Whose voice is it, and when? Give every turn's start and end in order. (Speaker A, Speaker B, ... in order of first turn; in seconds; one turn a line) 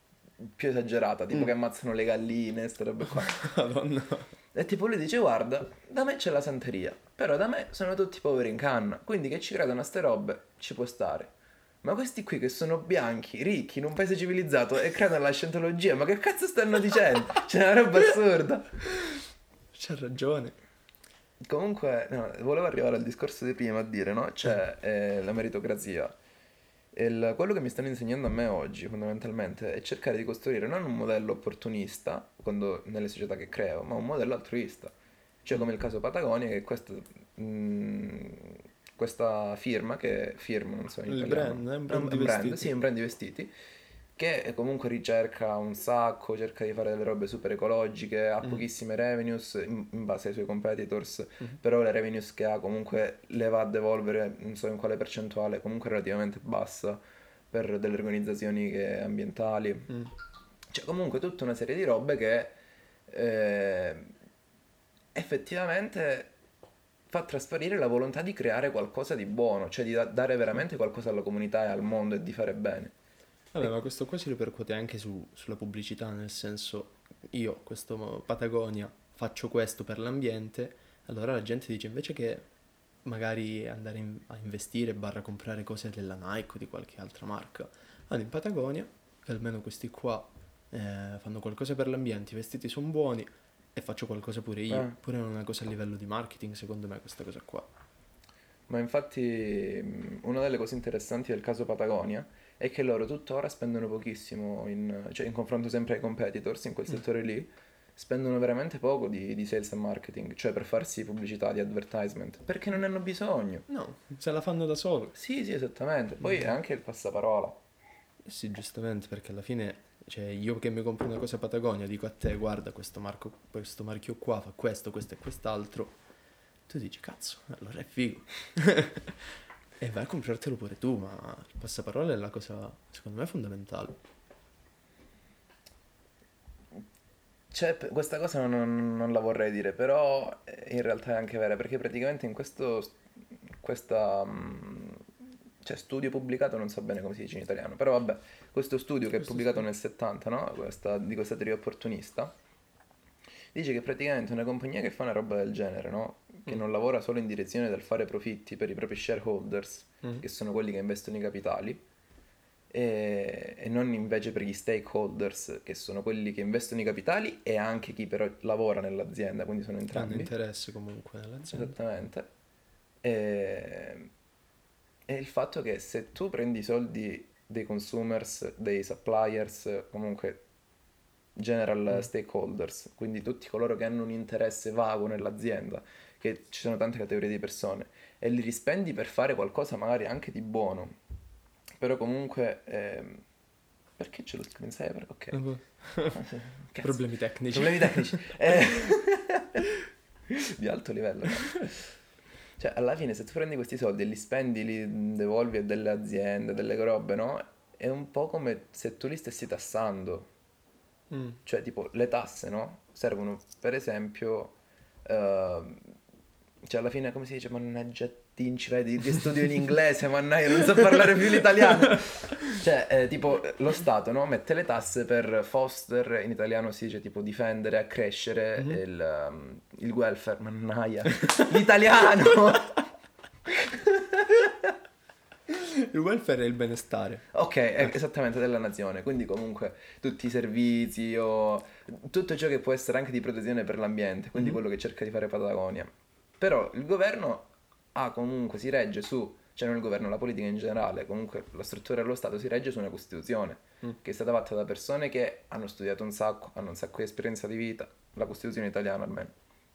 Speaker A: 0.4-3.5
Speaker B: 3.1-4.3
Speaker A: 4.5-11.3
Speaker A: 11.8-18.7
Speaker B: 19.7-20.6
Speaker A: 21.4-26.1
Speaker A: 26.9-43.5
Speaker B: 41.1-42.7
Speaker A: 44.2-59.9
Speaker A: 60.7-62.6
Speaker A: 63.1-64.1
Speaker A: 65.2-66.3
Speaker A: 67.1-72.9
Speaker B: 73.5-82.5
Speaker B: 83.0-97.7
Speaker A: 94.7-95.0
Speaker A: 98.7-113.7
Speaker B: 113.7-115.2
Speaker A: 115.2-117.6
Speaker B: 118.2-126.0
Speaker B: 126.7-134.0
Speaker A: 137.5-143.0
Speaker A: 143.6-145.0
Speaker A: 145.6-152.3
Speaker B: 149.3-149.6
Speaker A: 153.5-161.8
Speaker A: 162.7-170.3
Speaker B: 169.9-171.8
Speaker A: 171.5-172.3
Speaker A: 173.0-174.1
Speaker A: 175.1-180.4
Speaker A: 181.4-191.0
Speaker A: 191.8-193.2
Speaker A: 194.0-195.4
Speaker B: 195.3-196.2
Speaker A: 196.1-199.7
Speaker B: 196.8-198.3
Speaker A: 200.3-201.9
Speaker A: 202.6-210.3
Speaker B: 211.1-211.4
Speaker A: 211.4-215.9
Speaker A: 216.6-232.8
Speaker A: 233.5-234.5
Speaker B: 235.5-237.2
Speaker A: 237.3-259.3